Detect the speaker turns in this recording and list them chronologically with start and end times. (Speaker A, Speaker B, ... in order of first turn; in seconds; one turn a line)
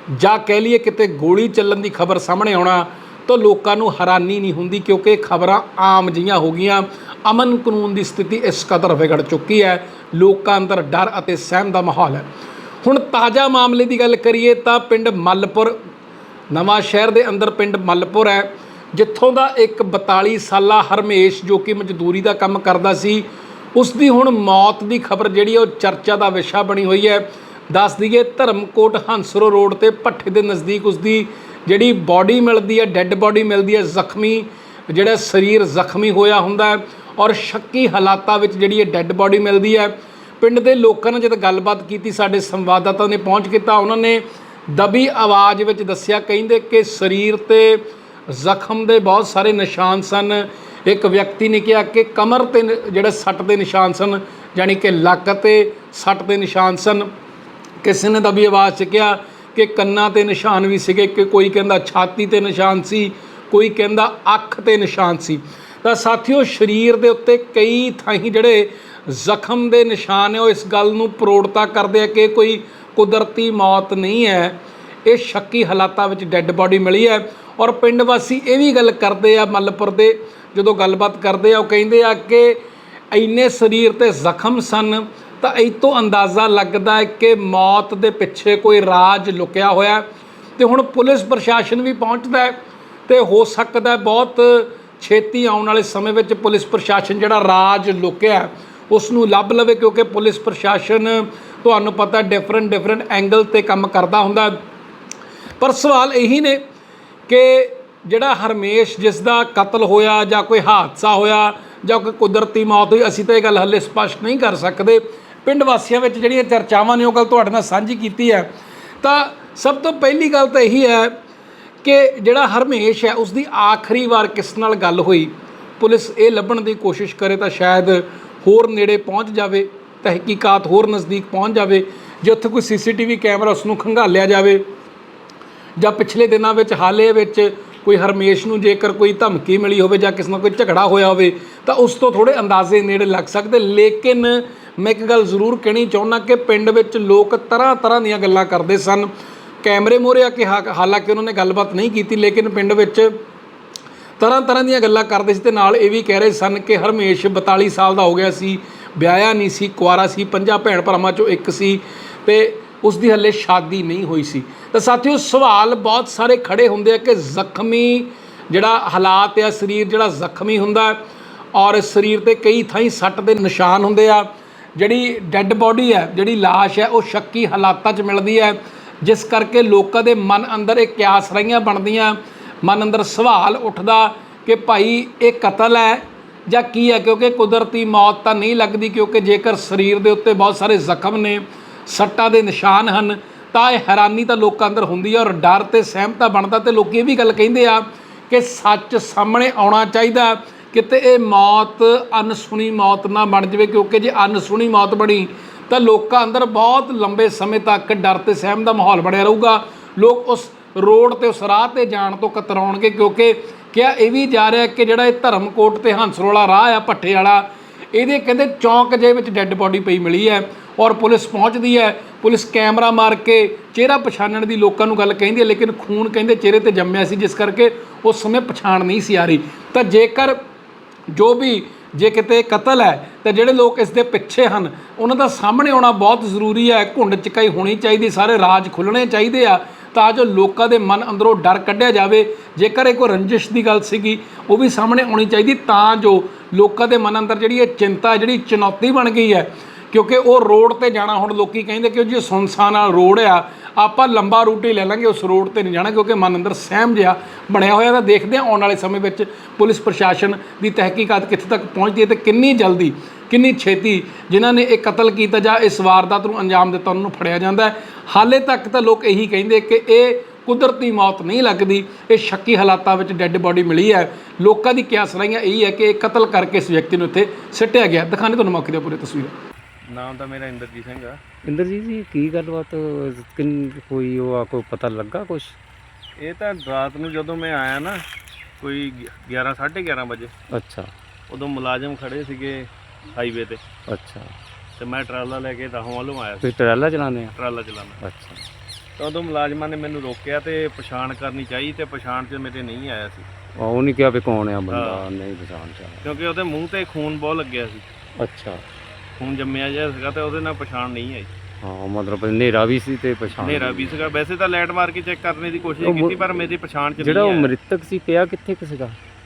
Speaker A: 0.1-12.3
Speaker A: 12.8-15.8
Speaker A: 16.5-57.1
Speaker A: 57.8-82.6
Speaker A: 83.1-90.0
Speaker A: 90.6-92.6
Speaker A: 93.1-104.6
Speaker A: 105.6-106.6
Speaker A: 107.3-118.5
Speaker A: 119.0-121.2
Speaker A: 121.8-134.7
Speaker A: 135.8-149.1
Speaker A: 149.6-153.1
Speaker A: 154.2-171.0
Speaker A: 171.6-230.4
Speaker A: 231.1-279.3
Speaker B: 279.9-281.2
Speaker C: 281.4-285.6
Speaker B: 286.2-288.0
Speaker B: 288.6-290.3
Speaker C: 290.5-290.9
Speaker B: 291.3-293.6
Speaker C: 293.9-294.3
Speaker B: 294.8-296.5
Speaker C: 296.4-297.4
Speaker B: 297.4-298.0
Speaker C: 298.0-298.4
Speaker B: 299.0-303.3
Speaker C: 303.6-306.2
Speaker B: 304.7-305.1
Speaker B: 306.0-307.9
Speaker C: 308.2-308.6
Speaker B: 309.2-311.3
Speaker C: 311.6-314.2
Speaker B: 313.4-317.6
Speaker C: 315.8-316.4
Speaker C: 317.0-319.0